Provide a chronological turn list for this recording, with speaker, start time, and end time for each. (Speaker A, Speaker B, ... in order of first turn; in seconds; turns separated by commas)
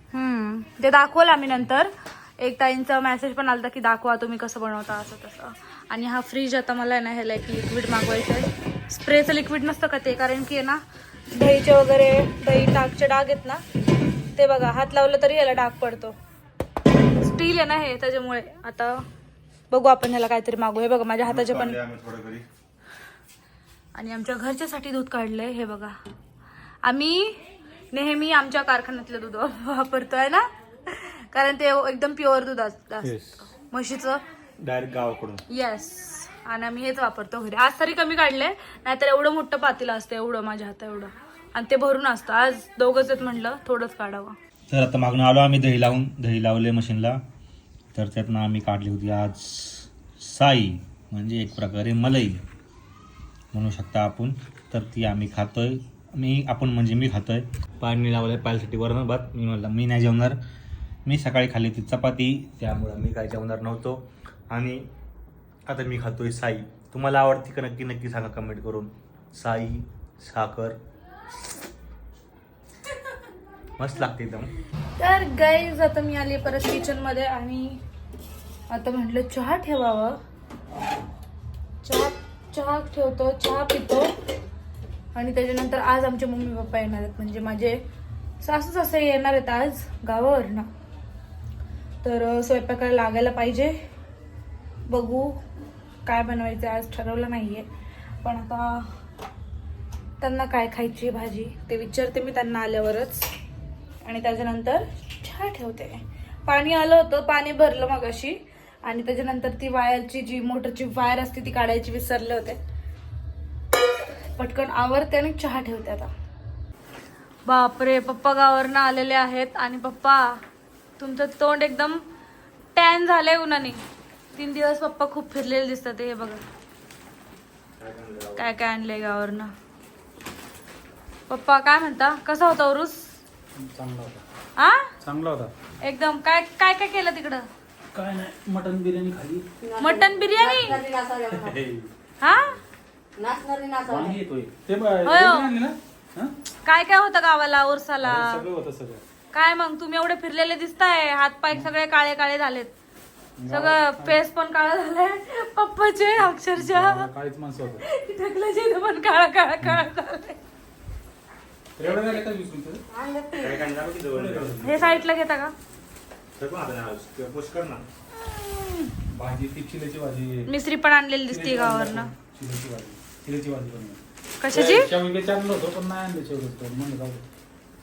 Speaker A: 0.1-10.8, Speaker A: 11.3-13.6, Speaker A: 14.4-16.2, Speaker A: 17.2-19.0, Speaker A: 19.7-21.8, Speaker B: 21.3-22.5, Speaker A: 23.9-26.0, Speaker A: 26.8-27.4, Speaker A: 27.9-34.2, Speaker B: 34.6-35.4, Speaker A: 35.5-44.4, Speaker B: 44.7-47.2, Speaker B: 48.0-52.4, Speaker B: 53.5-60.4, Speaker B: 61.1-64.9, Speaker B: 65.7-70.8, Speaker B: 73.8-74.5, Speaker A: 75.0-77.8, Speaker A: 78.7-80.2, Speaker A: 81.8-84.1, Speaker A: 85.2-87.8, Speaker A: 88.4-90.7, Speaker A: 92.0-93.8, Speaker A: 94.9-95.4, Speaker A: 96.1-97.7, Speaker A: 98.2-98.8, Speaker A: 100.2-103.3, Speaker A: 104.0-112.6, Speaker A: 114.4-116.1, Speaker A: 117.5-120.4, Speaker A: 121.0-122.0, Speaker A: 122.8-123.8, Speaker A: 124.3-126.4, Speaker B: 127.8-128.5, Speaker A: 128.4-129.5, Speaker A: 131.3-133.0, Speaker C: 133.6-134.2, Speaker A: 134.6-134.8, Speaker C: 135.0-135.5, Speaker A: 135.8-137.5, Speaker C: 137.9-139.5, Speaker D: 139.6-141.6, Speaker A: 139.8-140.8, Speaker C: 141.3-141.9, Speaker A: 142.2-142.6, Speaker D: 143.2-144.2, Speaker C: 143.9-146.3, Speaker A: 145.1-145.5, Speaker A: 146.6-148.4, Speaker C: 148.0-149.0, Speaker A: 149.3-152.7, Speaker C: 153.4-154.2, Speaker A: 153.5-157.1, Speaker C: 156.2-157.8, Speaker A: 157.8-160.4, Speaker C: 161.8-162.8, Speaker D: 162.9-163.7, Speaker B: 163.4-165.0, Speaker C: 164.1-164.8, Speaker A: 164.6-165.5, Speaker B: 166.4-167.8, Speaker C: 169.1-170.5, Speaker A: 170.5-172.1, Speaker C: 171.3-177.2, Speaker A: 174.4-174.9